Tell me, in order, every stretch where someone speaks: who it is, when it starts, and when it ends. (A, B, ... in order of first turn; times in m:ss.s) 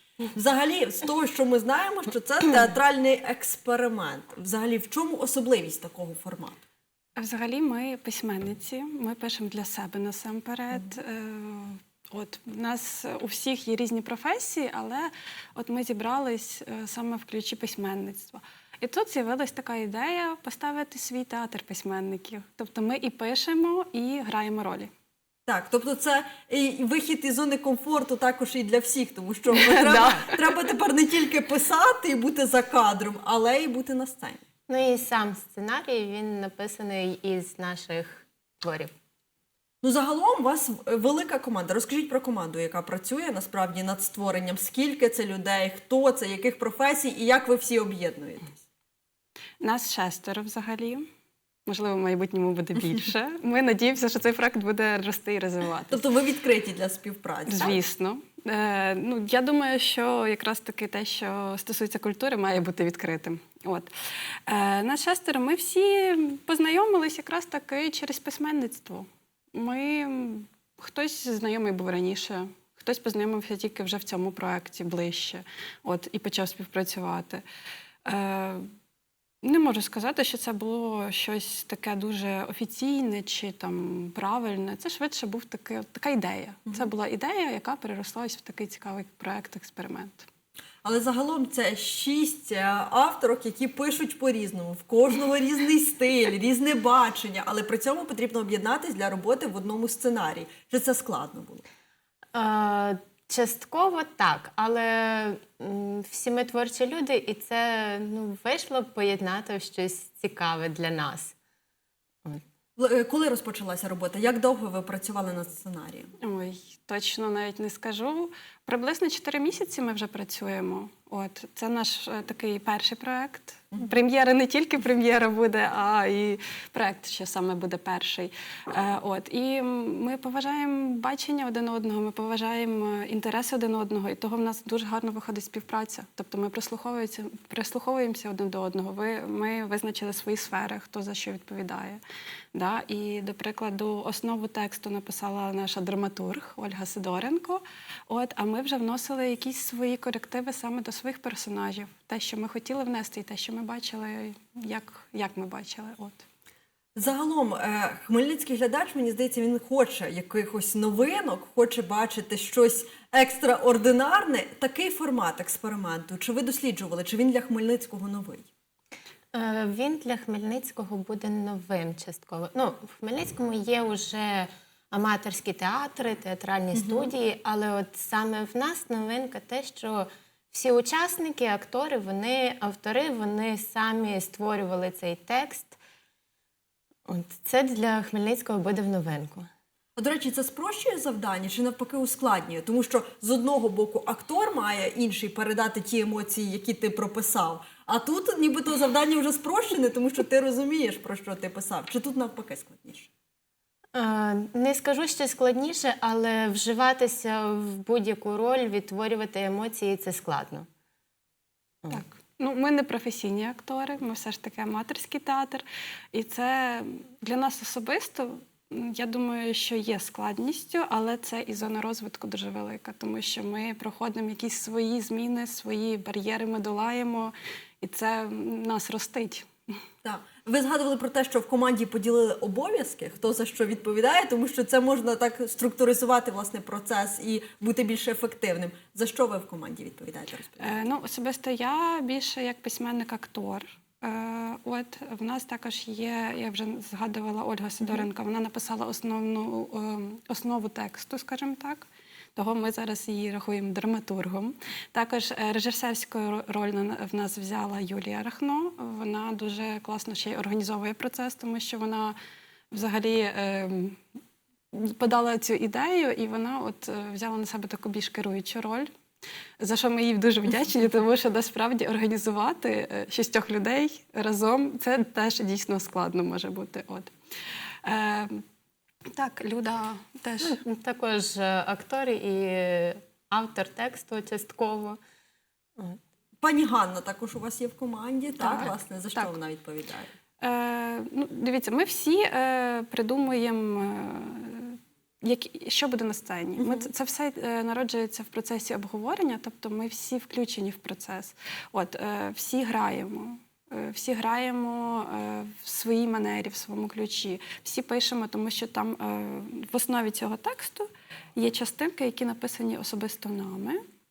0:00.3-0:06.6 A
0:07.2-0:24.9 B
0:25.5-0:34.4 A
0:29.6-0:30.4 B
0:34.7-0:38.9 C
0:39.8-0:48.6 A
0:49.6-0:51.0 B
0:51.7-0:56.0 B
0:55.9-0:57.8 A
0:57.5-1:03.9 B
1:04.5-1:17.4 B
1:18.0-1:18.6 B
1:19.4-1:30.3 B
1:30.8-1:41.6 A
1:42.3-1:51.3 C
1:52.8-1:56.1 A
1:56.2-2:22.0 B
2:22.5-2:36.2 B
2:37.0-2:48.5 A
2:49.3-3:05.8 C
2:56.7-2:57.1 A
3:07.0-3:09.5 C
3:10.0-3:23.1 A
3:23.9-3:30.7 C
3:31.9-3:49.5 B
3:50.0-4:00.8 A
4:00.6-4:22.2 B
4:22.7-4:24.0 B
4:24.7-4:28.9 B
4:29.6-4:37.1 B
4:37.8-4:38.4 B
4:39.1-4:40.6 B
4:40.4-4:45.0 C
4:46.4-4:50.1 A
4:48.4-4:49.3 B
4:50.4-5:13.8 B